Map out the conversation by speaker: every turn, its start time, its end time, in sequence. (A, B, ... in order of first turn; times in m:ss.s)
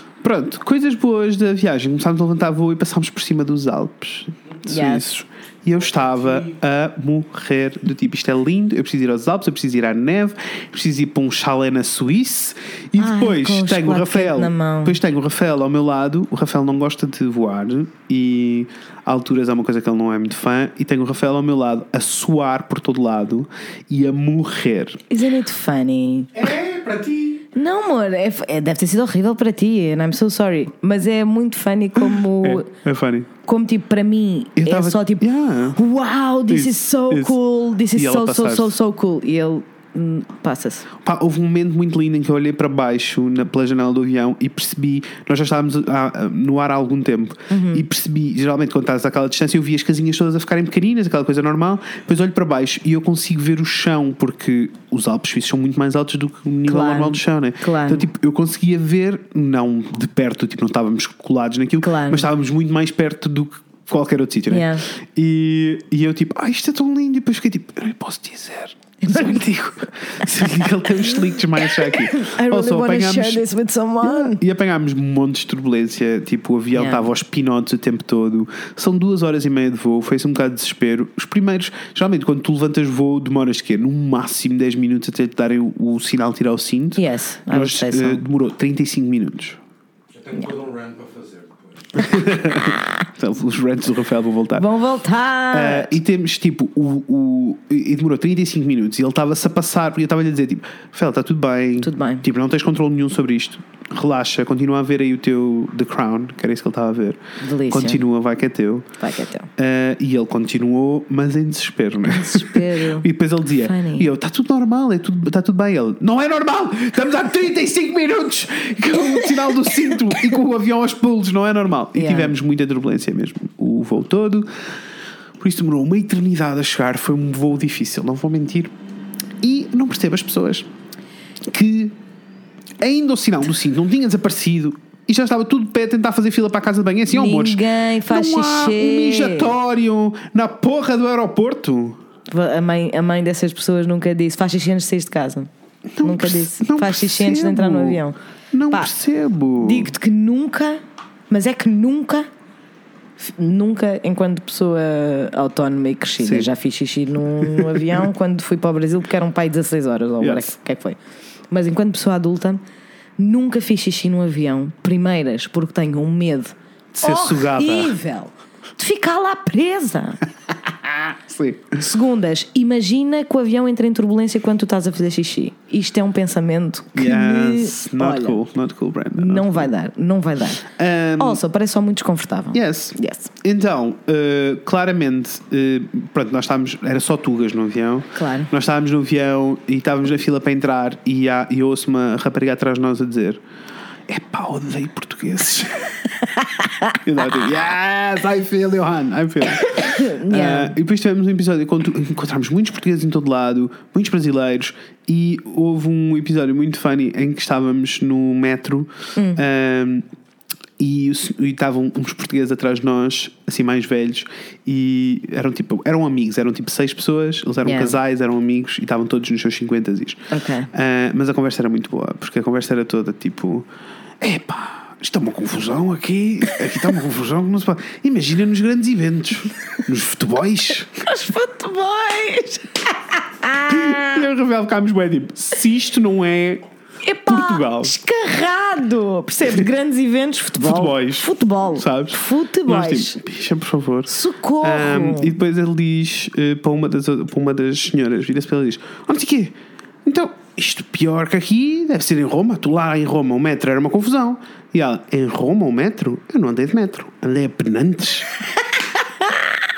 0:00.2-0:25.0 A
0:04.6-0:05.1 B
0:13.0-0:15.0 B
0:25.1-0:26.3 B
0:26.3-0:27.4 C
0:27.5-0:32.7 B
0:32.4-0:33.3 A
0:33.4-0:40.9 B
0:34.6-0:35.8 A
0:36.5-0:37.4 A
0:37.9-0:38.8 A
0:41.0-1:13.4 A
0:47.5-0:47.8 B
0:56.7-0:58.0 B
1:01.8-1:02.3 B
1:04.5-1:04.8 B
1:09.0-1:09.5 B
1:10.2-1:10.6 B
1:11.6-1:14.4 B
1:14.0-1:29.6 A
1:16.7-1:17.1 B
1:27.0-1:28.2 B
1:30.1-1:31.6 C
1:32.0-1:34.7 A
1:32.5-1:33.0 B
1:34.6-1:35.9 B
1:35.5-1:47.2 A
1:41.8-1:42.2 B
1:47.4-1:48.0 B
1:47.7-1:48.9 A
1:49.0-1:49.5 B
1:49.6-2:04.5 A
1:52.0-1:53.1 B
1:53.6-1:54.1 B
2:01.9-2:02.3 B
2:05.4-2:08.7 A
2:09.4-2:10.7 A
2:11.5-2:12.0 A
2:12.8-2:22.0 A
2:17.1-2:19.5 B
2:22.3-2:25.5 B
2:26.0-2:29.9 A
2:26.0-2:28.2 B
2:29.6-2:32.3 B
2:33.2-2:41.0 B
2:36.2-2:36.5 A
2:37.4-2:38.0 A
2:40.2-2:40.5 A
2:41.5-2:42.6 B
2:43.2-2:50.2 B
2:46.9-2:48.0 A
2:50.8-2:51.8 A
2:51.8-2:58.4 B
2:56.9-2:59.7 A
2:59.2-3:00.7 B
3:00.6-3:01.4 A
3:01.2-3:03.3 B
3:02.5-3:13.4 A
3:08.1-3:08.5 B
3:14.1-3:16.0 A
3:16.4-3:16.9 B
3:17.0-3:30.0 A
3:19.5-3:20.7 B
3:29.2-3:29.4 B
3:30.8-3:43.7 A
3:37.6-3:37.9 B
3:40.3-3:40.7 B
3:44.2-3:51.0 A
3:51.0-3:54.2 B
3:53.7-3:56.6 A
3:57.0-4:03.2 B
3:57.3-3:57.9 A
4:00.6-4:18.3 A
4:04.1-4:05.4 B
4:19.2-4:19.5 B